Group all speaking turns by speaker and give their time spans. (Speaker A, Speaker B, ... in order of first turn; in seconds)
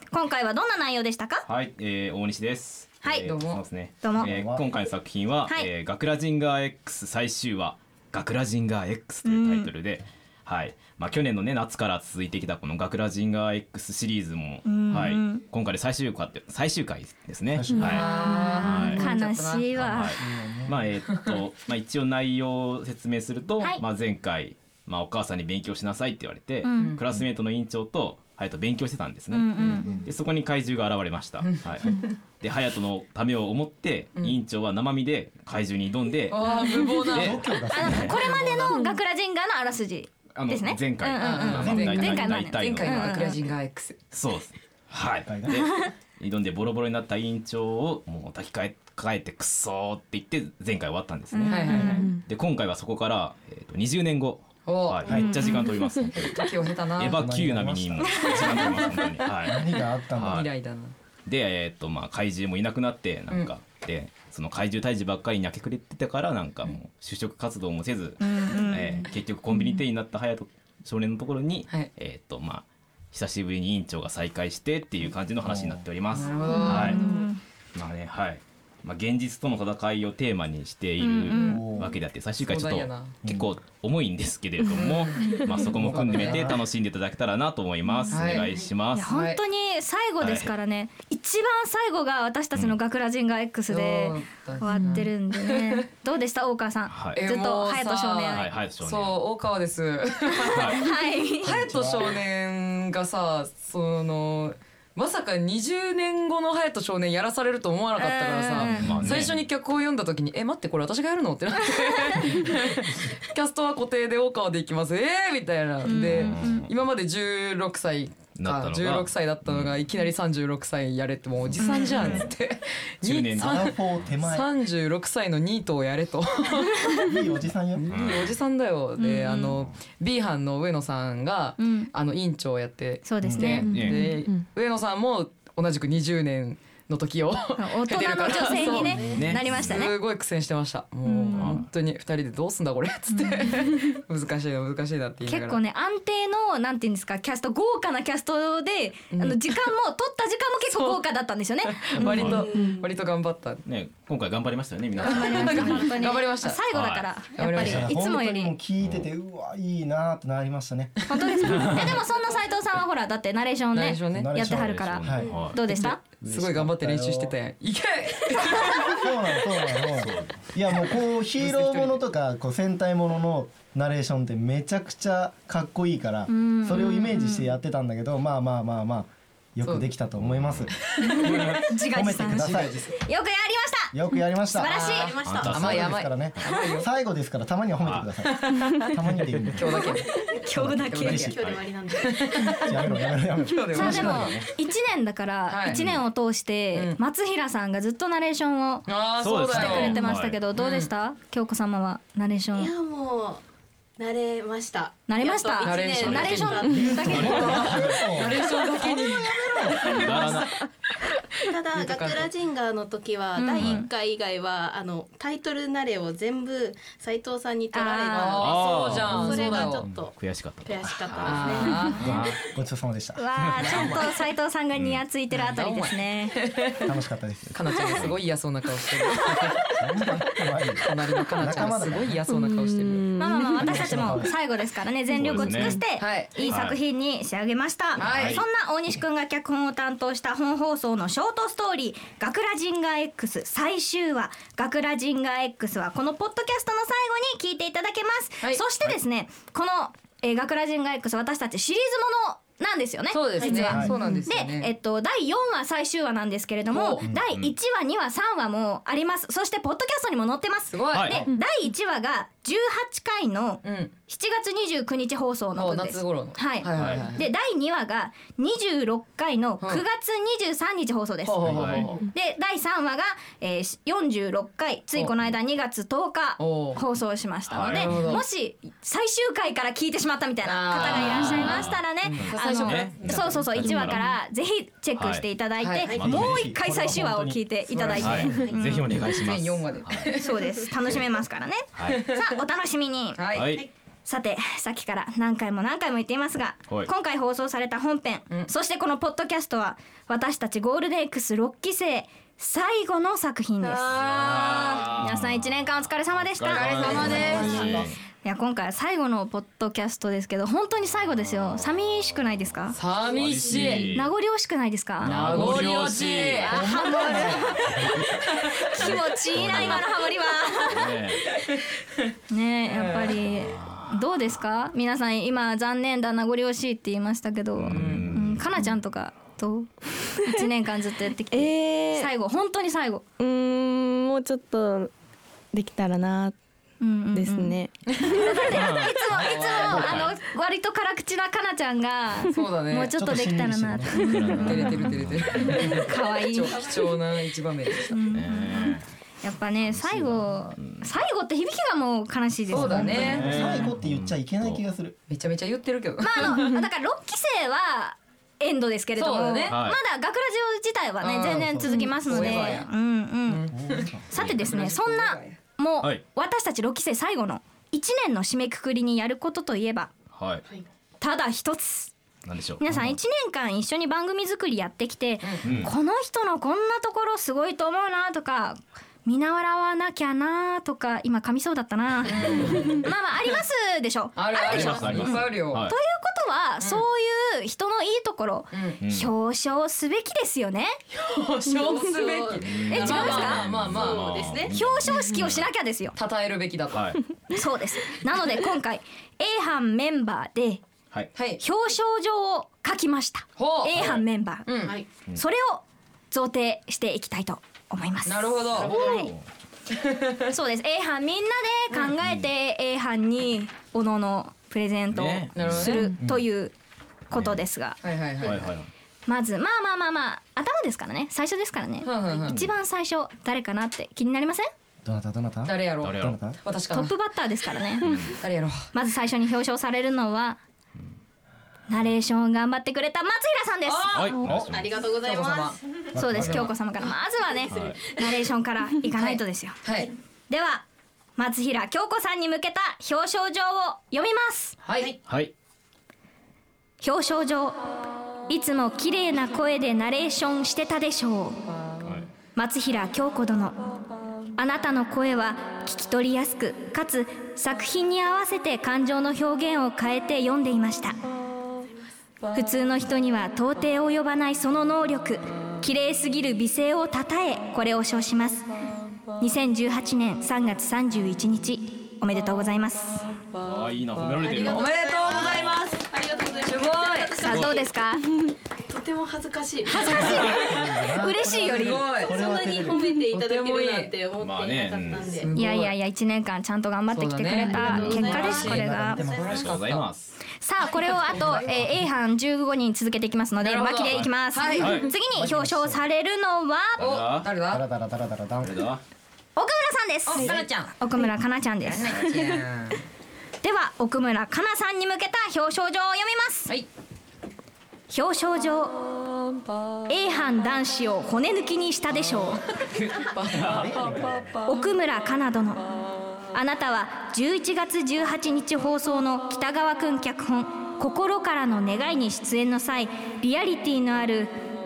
Speaker A: 0.1-1.4, 4.0-4.3, 9.2-9.7, 14.6-15.4, 18.2-20.1, 26.6-26.9, 29.3-29.9, 37.7-43.4, 51.3-52.1, 68.2-69.0, 76.5-77.4, 81.0-81.6, 87.9-88.2, 88.9-98.5, 100.4-101.6, 108.0-108.9, 115.8-116.6, 121.6-122.2, 129.0-129.5, 131.6-131.9, 133.0-133.7, 137.6-139.9, 141.0-141.6, 143.1-143.6, 145.2-152.4, 155.0-158.5, 161.1-166.0, 176.3-177.5, 181.0-183.9, 184.5-185.2, 189.8-191.3, 193.7-202.7, 205.1-207.8, 213.4-213.9, 217.7-218.5, 223.2-226.4, 233.2-288.8, 290.2-293.4, 294.1-312.8, 313.5-315.8, 316.4-317.9, 318.5-320.9, 322.3-333.0, 336.8-344.8, 345.6-346.6, 347.9-353.2, 356.0-363.5, 364.1-369.9, 371.0-371.9, 372.6-385.1, 385.7-390.8, 392.7-393.4, 394.5-395.9, 397.3-400.6, 401.4-404.5, 405.1-409.1, 410.3-416.5, 417.1-417.8, 419.1-424.5, 426.7-427.9, 428.7-430.4, 431.7-434.2, 435.9-439.6, 440.3-440.6, 441.2-444.6, 446.8-447.6, 448.3-451.4, 452.3-453.6, 454.4-461.0, 462.3-468.4, 469.2-473.1, 477.1-478.0, 479.7-481.9, 485.3-489.0, 490.4-497.0, 499.4-502.2, 503.4-506.5, 507.9-508.8, 509.9-512.4, 514.5-515.6, 516.3-524.4
Speaker B: 1.4-18.1, 18.6-19.0, 19.8-38.2, 40.3-43.2, 44.1-60.5, 61.2-77.0, 77.7-89.1, 90.2-90.5, 96.9-97.2, 98.3-99.2, 100.5-100.8, 108.7-109.4, 115.9-116.7, 118.3-119.8, 121.5-122.3, 123.0-123.7, 127.9-128.3, 133.6-134.1, 139.0-139.8, 141.3-141.7, 152.0-152.4, 153.7-155.9, 156.7-157.1, 158.8-159.1, 161.5-162.0, 164.4-165.6, 169.9-170.5, 180.2-180.7, 185.2-186.4, 195.7-196.0, 199.2-200.4, 206.0-206.4, 207.0-208.0, 209.9-210.5, 218.4-222.4, 223.4-223.9, 224.8-225.0, 228.0-228.2, 235.2-235.8, 236.5-236.8, 238.0-238.4, 257.1-257.5, 266.7-267.0, 271.4-271.9, 277.5-278.1, 280.8-284.0, 284.9-285.2, 285.9-286.4, 287.9-290.1, 291.8-292.0, 293.3-293.6, 303.8-307.9, 313.1-314.1, 315.0-317.9, 318.7-319.9, 320.6-321.3, 323.3-324.0, 327.6-328.7, 338.5-340.1, 344.1-345.6, 348.1-348.9, 349.6-350.9, 352.7-354.6, 359.5-359.8, 370.1-370.4, 372.2-372.9, 375.4-375.7, 384.4-385.7, 388.8-389.1, 392.4-395.4, 396.7-397.0, 403.8-404.0, 408.5-409.2, 414.9-415.8, 417.1-417.4, 418.2-418.7, 425.8-426.2, 427.8-428.1, 433.9-434.7, 437.5-437.8, 445.1-445.3, 451.8-452.1, 473.4-475.6, 477.3-477.5, 484.2-485.2, 489.2-490.2, 494.6-494.9, 496.8-497.3, 498.4-498.8
Speaker C: 3.2-3.6, 17.7-19.7, 36.3-38.9, 41.2-44.0, 51.5-52.1, 54.6-55.0, 56.1-57.2, 60.3-60.9, 76.1-77.0, 82.4-83.2, 84.7-86.5, 88.1-88.5, 89.0-89.4, 93.7-95.8, 97.2-127.0, 127.9-145.6, 149.1-149.4, 150.7-151.0, 151.6-153.6, 155.0-156.6, 157.3-157.8, 163.7-164.3, 165.6-168.9, 171.3-172.0, 179.6-179.9, 180.8-181.6, 184.7-186.9, 188.3-188.9, 189.5-190.1, 190.7-191.4, 192.0-192.6, 193.4-194.4, 195.5-195.8, 196.7-197.0, 198.9-200.0, 200.5-200.9, 205.6-210.3, 211.7-212.3, 218.1-219.9, 221.2-222.1, 223.6-224.1, 225.3-226.9, 227.5-230.0, 230.8-234.2, 235.6-236.5, 238.0-238.4, 253.1-254.7, 256.7-257.0, 260.7-261.3, 263.6-263.9, 265.6-267.2, 271.2-272.0, 276.4-276.8, 277.7-278.2, 280.4-284.0, 285.6-286.0, 289.1-290.3, 293.1-293.5, 306.5-307.8, 312.7-313.9, 315.0-317.4, 322.7-323.2, 327.8-328.1, 339.1-340.0, 342.3-342.9, 344.4-347.9, 352.5-353.6, 355.1-356.6, 358.9-359.6, 361.0-362.7, 363.3-365.4, 382.0-382.8, 384.1-385.6, 386.6-386.8, 388.5-388.8, 390.9-394.4, 395.9-396.9, 403.4-403.9, 404.5-404.8, 408.1-409.0, 409.7-410.3, 415.3-416.0, 417.8-418.5, 421.8-422.4, 425.4-426.9, 428.2-428.6, 433.6-434.1, 434.9-435.6, 436.1-436.9, 438.9-439.9, 444.6-444.9, 474.0-475.9, 476.4-477.3, 479.9-480.3, 481.4-482.1, 482.9-483.9, 485.2-485.7, 486.9-489.8, 490.7-491.6, 493.4-494.9, 496.8-497.6, 500.1-500.7, 501.6-502.8, 512.7-513.8
Speaker D: 4.2-4.6, 17.5-18.0, 20.2-20.8, 29.8-30.1, 37.1-38.0, 45.2-45.6, 55.1-55.3, 57.1-58.7, 59.4-60.4, 75.5-75.8, 81.4-81.9, 83.2-83.5, 85.8-86.6, 101.7-102.1, 123.4-124.5, 127.0-127.9, 133.2-133.6, 157.6-160.9, 164.1-165.3, 166.2-167.3, 168.5-180.7, 181.9-182.9, 183.9-184.7, 185.5-189.7, 190.5-191.4, 192.5-194.5, 206.7-210.0, 222.4-223.2, 226.8-227.6, 229.6-232.2, 233.6-234.3, 253.7-253.9, 286.0-288.5, 316.8-317.2, 342.9-344.6, 352.6-355.0, 361.2-362.6, 363.5-364.0, 424.8-426.4, 435.9-436.4, 479.9-482.8, 488.3-489.3, 495.1-495.8, 497.5-498.6, 513.4-514.2
Speaker E: 138.6-139.2, 184.7-185.7, 191.1-192.9, 202.5-203.4, 204.0-207.2, 211.4-221.9, 253.4-253.7, 391.5-393.0, 393.7-394.5, 434.5-435.6, 474.7-477.6, 478.7-479.9, 482.0-485.3, 487.5-489.5
Speaker F: 232.9-233.4, 331.3-332.1, 333.2-334.9, 335.5-336.3, 337.1-338.3